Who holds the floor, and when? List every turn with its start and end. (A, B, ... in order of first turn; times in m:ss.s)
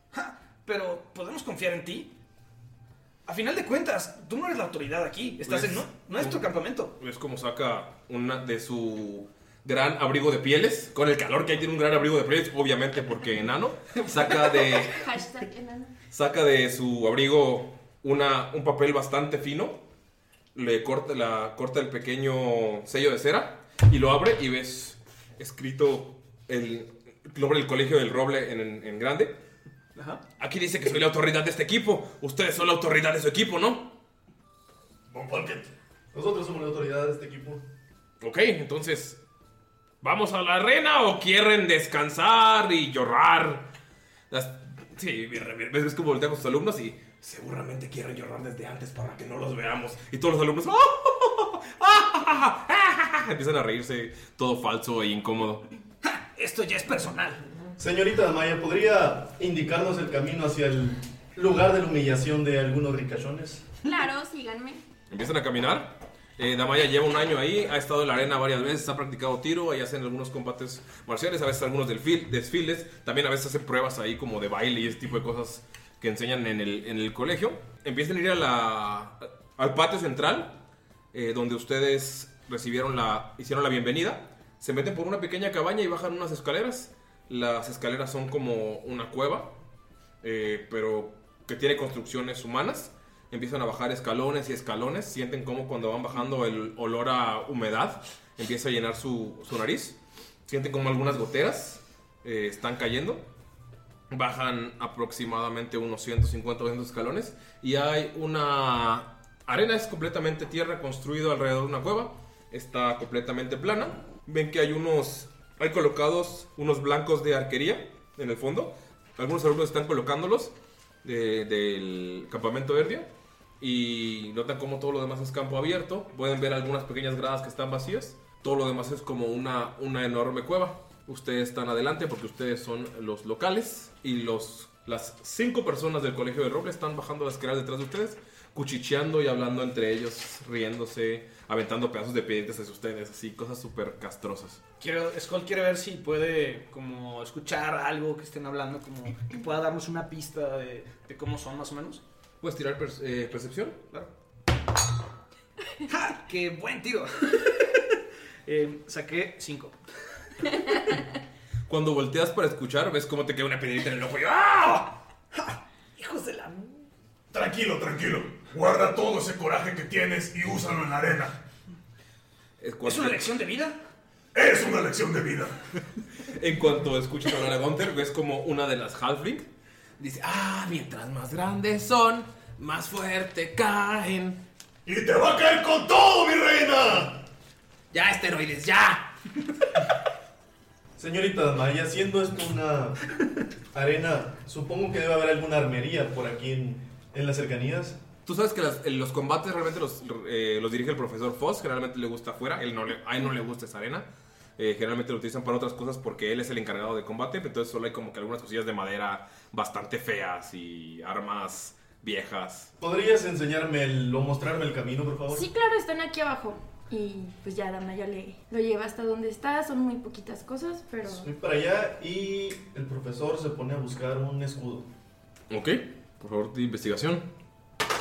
0:00.1-0:02.1 A
0:03.2-0:06.9 A
0:05.4-0:15.0 B
0:14.1-0:15.9 C
0:16.1-0:19.8 B
0:20.5-0:29.4 B
0:30.0-0:30.2 A
0:30.4-0:33.9 B
0:35.1-0:35.7 D
0:36.1-0:37.6 E
0:38.2-0:39.2 B
0:40.0-0:43.7 B
0:44.3-0:55.6 B
0:56.0-0:57.4 A
0:57.8-1:03.6 E
1:03.8-1:04.8 C
1:05.1-1:20.6 B
1:21.1-1:29.5 B
1:30.2-1:43.2 B
1:44.1-2:00.5 B
2:01.0-2:24.6 B
2:24.8-2:32.0 A
2:32.4-2:33.8 B
2:35.9-2:39.8 A
2:41.7-2:44.9 B
2:45.3-2:46.8 A
2:47.3-2:51.4 D
2:52.6-2:53.3 B
2:52.8-2:53.8 A
2:54.3-2:55.6 D
2:56.3-2:59.5 B
3:00.0-3:04.4 B
3:04.8-3:07.3 D
3:07.9-3:09.1 B
3:11.0-3:13.0 E
3:13.7-3:18.0 E
3:18.2-3:24.1 B
3:24.6-3:32.7 B
3:32.8-3:35.4 E
3:35.3-3:41.3 C
3:41.0-3:44.9 E
3:45.5-3:47.3 B